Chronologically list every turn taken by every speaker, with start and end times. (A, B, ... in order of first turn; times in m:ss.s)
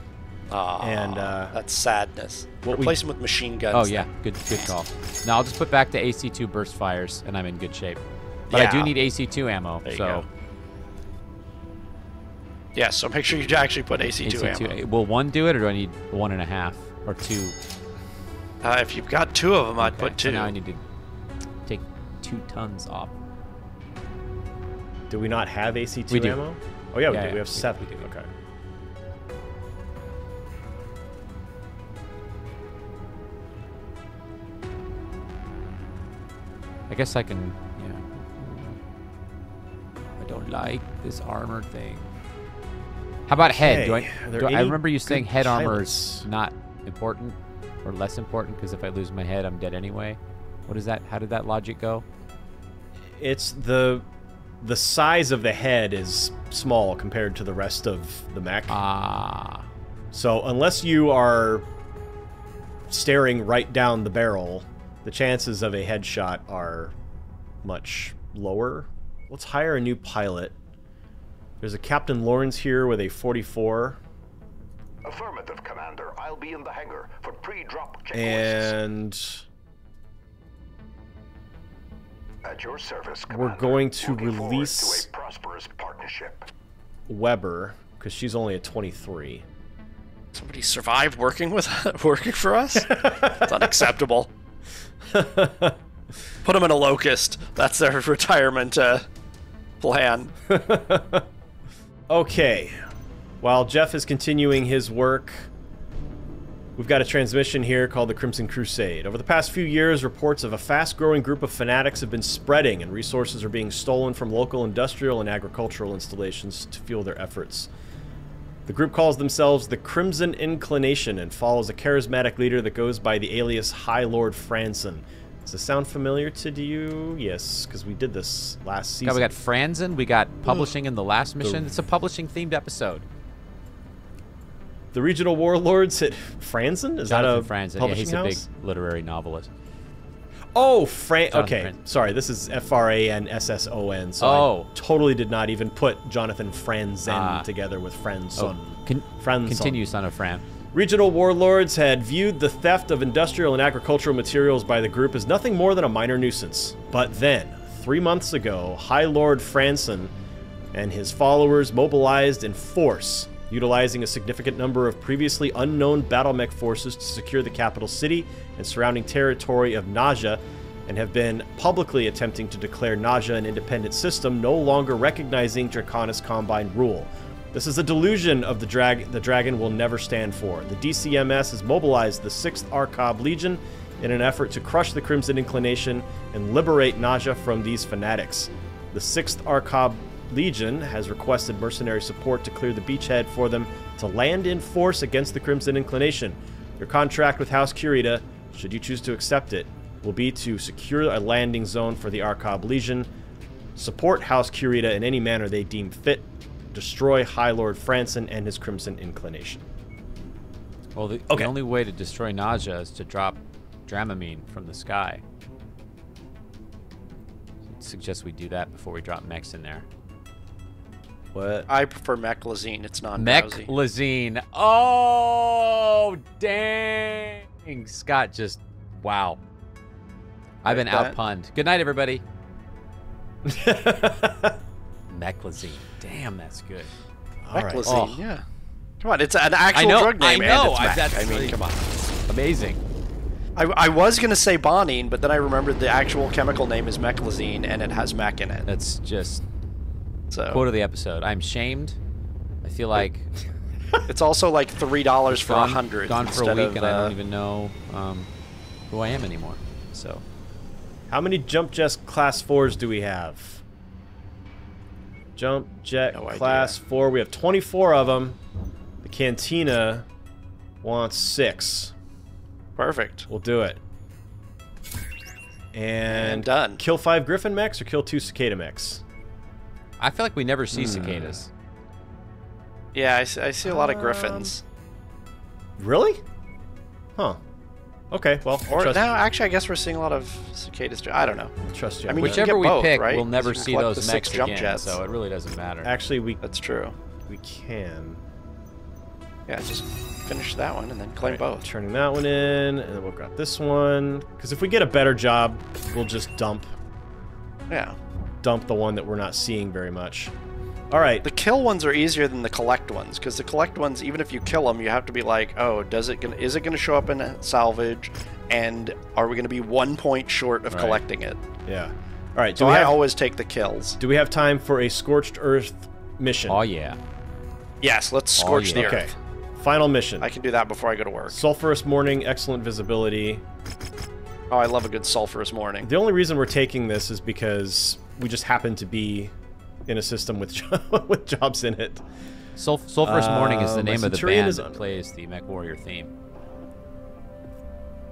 0:00.5-0:04.7 A
0:00.8-0:01.5 B
0:02.6-0:03.0 B
0:03.7-0:10.2 C
0:08.5-0:08.9 A
0:09.8-0:10.3 A
0:12.7-0:14.8 A
0:14.2-0:17.5 C
0:18.6-0:20.5 A
0:19.8-0:20.8 C
0:21.6-0:23.1 C
0:25.1-0:28.3 B
0:26.1-0:26.4 C
0:27.1-0:28.1 C
0:36.9-0:38.8 C
0:40.2-0:42.1 C
0:43.3-0:52.0 C
0:43.5-0:46.3 B
0:53.2-0:54.0 B
0:54.6-0:58.8 B
0:58.7-0:59.7 C
1:00.1-1:01.6 B
1:02.9-1:06.9 B
1:07.6-1:10.6 B
1:11.6-1:14.0 B
1:15.0-1:18.8 D
1:18.1-1:19.4 B
1:22.4-1:26.5 D
1:23.3-1:25.1 B
1:27.1-1:29.4 B
1:30.3-1:34.3 A
1:32.8-1:33.6 B
1:35.1-1:35.8 B
1:36.4-1:39.1 A
1:39.8-1:40.3 A
1:40.5-1:41.2 B
1:42.1-1:42.8 B
1:43.4-1:45.5 B
1:46.8-1:57.7 B
1:58.6-2:09.3 B
2:09.0-2:13.0 C
2:11.4-2:11.8 B
2:14.9-2:18.4 B
2:17.0-2:19.5 C
2:20.5-2:29.8 B
2:21.3-2:21.8 C
2:24.2-2:24.7 C
2:27.0-2:27.5 C
2:28.4-2:30.4 C
2:30.7-2:40.1 B
2:40.7-3:23.1 B
3:23.8-3:29.6 B
3:30.9-3:35.2 C
3:37.7-3:39.8 C
3:41.3-3:41.7 B
3:41.7-3:43.7 A
3:43.2-3:49.4 C
3:50.6-3:52.2 C
3:50.6-3:51.2 A
3:53.4-3:54.6 B
3:55.1-3:56.9 C
3:57.4-3:57.9 B
3:57.5-3:58.4 A
3:57.8-3:58.2 C
3:59.0-4:01.6 A
3:59.7-4:02.8 C
4:03.6-4:08.7 A
4:08.6-4:09.4 C
4:10.3-4:10.6 A
4:10.5-4:12.0 C
4:12.6-4:13.3 C
4:14.1-4:17.2 A
4:15.3-4:18.3 C
4:18.9-4:20.2 C
4:21.1-4:23.6 B
4:25.4-4:28.4 B
4:26.1-4:26.8 A
4:29.0-4:30.0 B
4:30.8-4:31.9 B
4:32.8-4:33.3 A
4:33.3-4:33.8 B
4:35.7-4:39.0 B
4:36.1-4:36.8 A
4:40.0-4:41.5 C
4:40.7-4:41.4 B
4:42.9-4:44.6 A
4:43.6-4:44.5 B
4:45.8-4:46.2 B
4:48.1-4:49.1 B
4:48.7-4:51.5 A
4:51.6-4:52.4 B
4:52.1-4:55.0 A
4:52.2-4:55.9 C
4:55.8-4:56.4 B
4:56.4-4:56.9 A
4:57.3-4:58.2 B
4:59.5-5:01.6 A
5:01.2-5:06.7 B
5:07.7-5:08.0 A
5:08.4-5:10.3 B
5:10.9-5:11.2 B
5:11.2-5:21.4 A
5:20.7-5:21.0 C
5:21.6-5:22.9 B
5:22.6-5:24.0 A
5:24.0-5:26.6 B
5:26.5-5:27.0 C
5:27.8-5:29.1 A
5:28.4-5:29.0 C
5:28.7-5:30.3 B
5:30.2-5:31.4 A
5:31.3-5:33.4 B
5:34.5-5:35.9 A
5:35.8-5:39.3 B
5:39.9-5:42.0 B
5:42.6-5:46.1 C
5:43.0-5:44.9 B